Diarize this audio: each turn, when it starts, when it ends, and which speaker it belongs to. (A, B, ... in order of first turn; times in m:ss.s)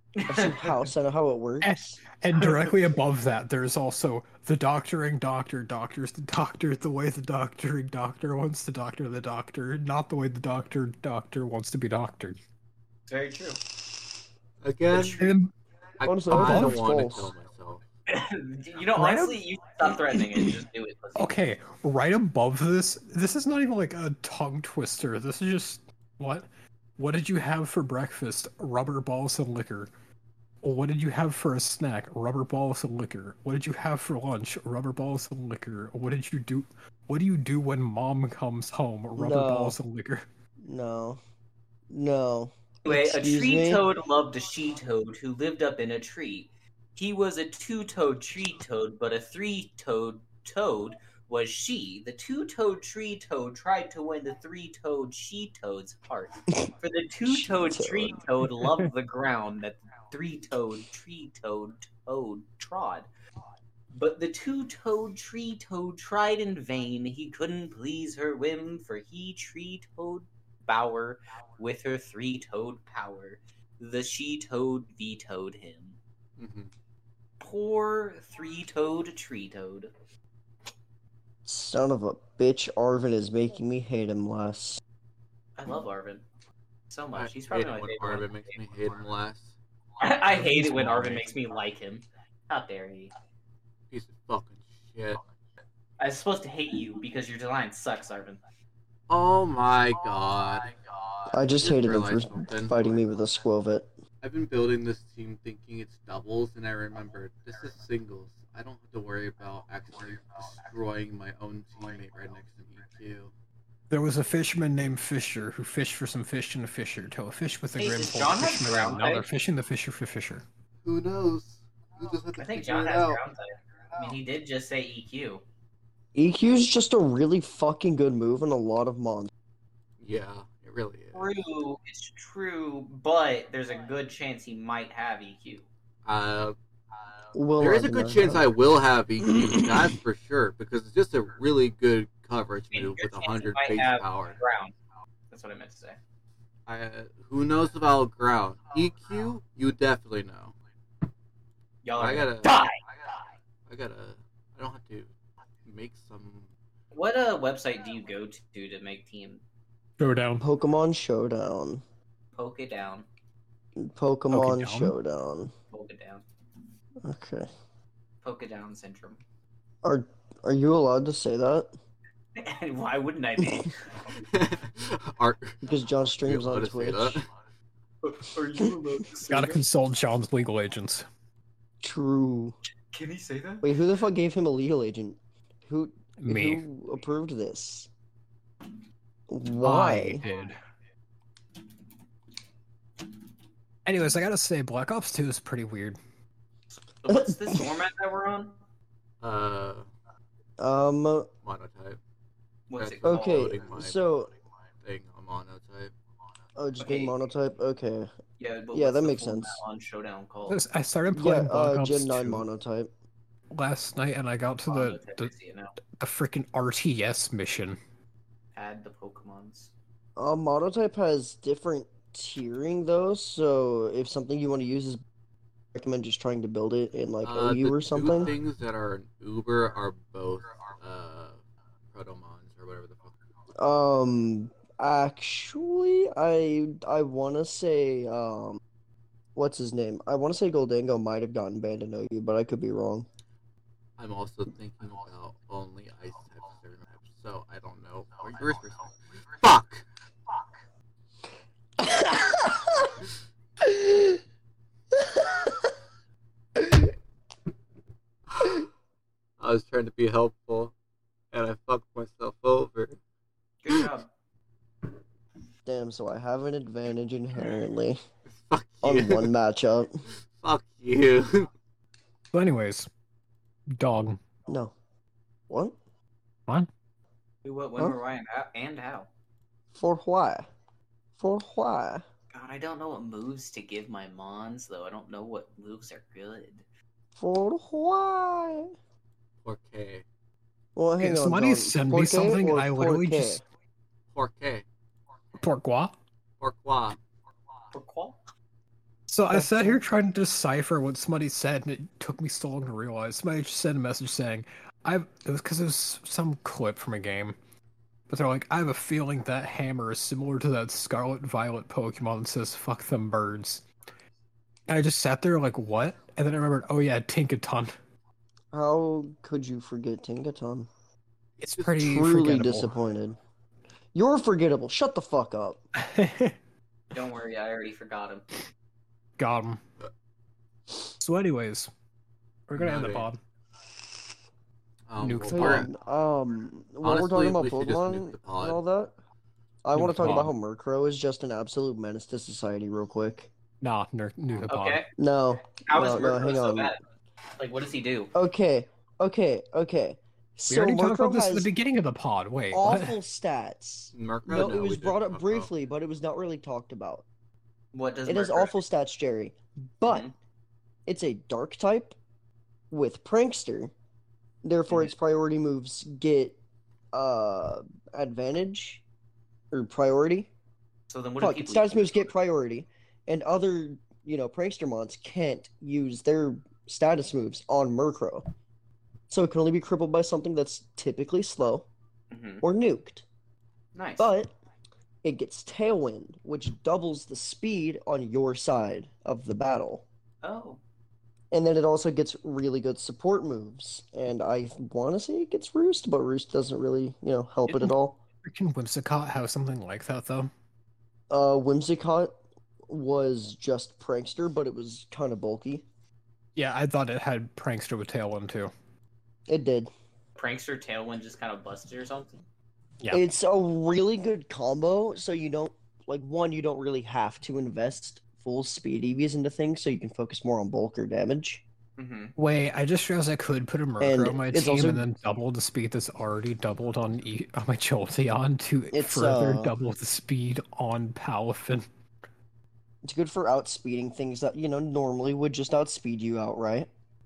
0:00.2-0:00.8 A
0:00.3-0:02.0 B
0:01.6-0:12.4 C
0:02.4-0:02.8 A
0:13.1-0:13.6 A
0:14.6-0:15.2 D
0:14.9-0:15.4 A
0:15.2-0:15.5 C
0:16.0-0:17.8 D
0:16.0-0:17.3 B
0:16.3-0:16.8 C
0:18.1-0:21.4 A
0:18.9-0:19.4 C
0:21.2-0:26.4 C
0:27.0-0:29.9 C
0:30.6-0:40.2 C
0:39.2-0:39.8 B
0:40.6-0:41.2 B
0:41.9-0:43.8 B
0:42.8-1:03.1 A
0:57.2-0:58.2 B
0:58.6-0:58.8 C
1:03.9-1:16.0 A
1:16.4-1:16.7 D
1:17.4-1:19.9 A
1:21.4-1:24.8 B
1:25.6-1:26.2 A
1:26.9-1:28.6 A
1:27.1-1:29.5 D
1:30.0-1:33.1 A
1:30.3-1:31.3 C
1:33.9-1:35.2 D
1:36.0-1:38.4 A
1:39.1-1:43.0 D
1:41.3-1:43.9 B
1:44.2-1:53.3 D
1:53.9-2:00.4 C
1:57.8-1:59.3 A
2:00.8-2:03.2 D
2:02.4-2:05.4 A
2:06.1-2:09.3 B
2:10.0-2:11.3 D
2:11.1-2:15.6 A
2:16.0-2:16.6 D
2:17.3-2:18.5 B
2:17.6-2:24.4 D
2:22.7-2:24.7 A
2:25.3-2:26.0 A
2:26.7-2:30.5 D
2:31.8-2:32.7 A
2:32.0-2:32.6 D
2:33.7-2:35.1 D
2:35.6-2:36.5 D
2:36.9-2:39.4 A
2:40.0-2:40.4 C
2:40.4-2:41.8 B
2:42.3-2:43.0 A
2:43.8-2:45.5 B
2:44.3-2:44.9 C
2:45.7-2:46.2 A
2:47.0-2:47.5 B
2:48.2-2:49.2 A
2:49.8-2:51.7 B
2:52.4-2:53.8 A
2:53.4-2:53.7 B
2:54.3-2:55.6 D
2:55.6-2:57.2 B
2:56.2-2:57.3 D
2:58.0-2:59.6 A
2:59.3-3:01.0 C
3:01.8-3:02.6 B
3:02.9-3:03.7 A
3:03.6-3:07.9 B
3:06.2-3:06.6 C
3:09.3-3:10.2 B
3:09.6-3:10.6 C
3:13.8-3:16.0 C
3:17.0-3:18.6 A
3:17.1-3:17.7 B
3:19.2-3:19.9 D
3:20.6-3:21.3 B
3:21.4-3:22.0 D
3:22.7-3:23.5 A
3:22.8-3:24.0 D
3:23.0-3:24.3 B
3:24.8-3:25.9 D
3:26.6-3:28.1 B
3:26.8-3:27.1 A
3:28.4-3:30.6 A
3:28.7-3:29.6 B
3:30.5-3:32.4 C
3:31.1-3:32.9 B
3:33.5-3:35.3 C
3:34.7-3:35.8 A
3:36.0-3:37.8 C
3:38.5-3:39.7 A
3:40.2-3:45.0 B
3:45.7-3:48.3 B
3:47.2-3:51.4 D
3:48.0-3:48.3 A
3:51.9-3:53.1 D
3:53.6-3:58.6 B
3:59.3-4:03.1 B
4:04.0-4:09.8 D
4:11.8-4:13.0 B
4:13.6-4:14.2 B
4:14.9-4:15.7 B
4:16.6-4:16.9 B
4:18.3-4:18.6 D
4:19.4-4:20.7 D
4:21.3-4:23.0 D
4:23.6-4:24.1 A
4:25.6-4:28.0 B
4:28.3-4:29.3 D
4:28.8-4:30.0 B
4:30.3-4:31.5 D
4:32.3-4:32.9 C
4:33.7-4:34.2 C
4:34.5-4:34.7 B
4:35.5-4:35.8 B
4:37.4-4:39.1 A
4:39.7-4:40.5 B
4:41.2-4:42.0 B
4:42.3-4:46.6 A
4:47.2-4:48.7 B
4:49.4-4:50.0 D
4:50.8-4:53.4 B
4:51.0-4:53.4 C
4:54.1-4:54.6 D
4:55.4-4:56.0 C
4:56.4-4:57.0 D
4:57.7-4:58.2 A
4:59.1-5:07.4 C
4:59.3-4:59.8 B
5:08.1-5:13.6 C
5:14.7-5:17.7 C
5:18.5-5:20.7 B
5:21.4-5:22.7 C
5:21.7-5:23.2 B
5:23.9-5:25.6 B
5:25.7-5:26.4 C
5:26.9-5:28.2 A
5:29.2-5:29.6 C
5:31.0-5:31.7 C
5:32.5-5:33.2 C
5:32.6-5:33.1 D
5:34.9-5:35.7 D
5:35.0-5:35.7 C
5:35.3-5:38.9 B
5:36.8-5:38.6 D
5:39.6-5:43.3 B
5:39.7-5:40.3 C
5:43.6-5:44.8 C
5:44.5-5:44.9 A
5:45.0-5:46.7 B
5:45.6-5:46.8 A
5:47.4-5:48.1 A
5:48.1-5:51.5 B
5:50.5-5:53.0 C
5:52.5-5:57.0 B
5:53.9-5:55.5 D
5:57.7-5:58.5 A
5:58.0-6:00.1 B
5:59.8-6:00.1 A
6:00.9-6:02.0 B
6:02.7-6:03.7 B
6:04.4-6:06.4 B
6:06.9-6:08.8 B
6:09.5-6:10.3 B
6:10.9-6:12.0 A
6:11.2-6:18.2 B
6:19.1-6:21.7 B
6:22.1-6:22.4 A
6:22.4-6:23.0 B
6:23.7-6:24.1 A
6:24.0-6:24.3 B
6:25.0-6:29.8 B
6:30.2-6:30.6 A
6:31.3-6:38.0 B
6:37.5-6:40.3 C
6:41.1-6:42.1 B
6:42.7-6:45.6 B
6:46.4-6:48.5 C
6:49.3-6:49.7 B
6:50.2-6:52.2 A
6:52.9-7:01.4 B
7:01.8-7:02.1 A
7:02.2-7:11.6 C
7:03.8-7:04.8 B
7:08.7-7:09.5 B
7:12.8-7:16.7 B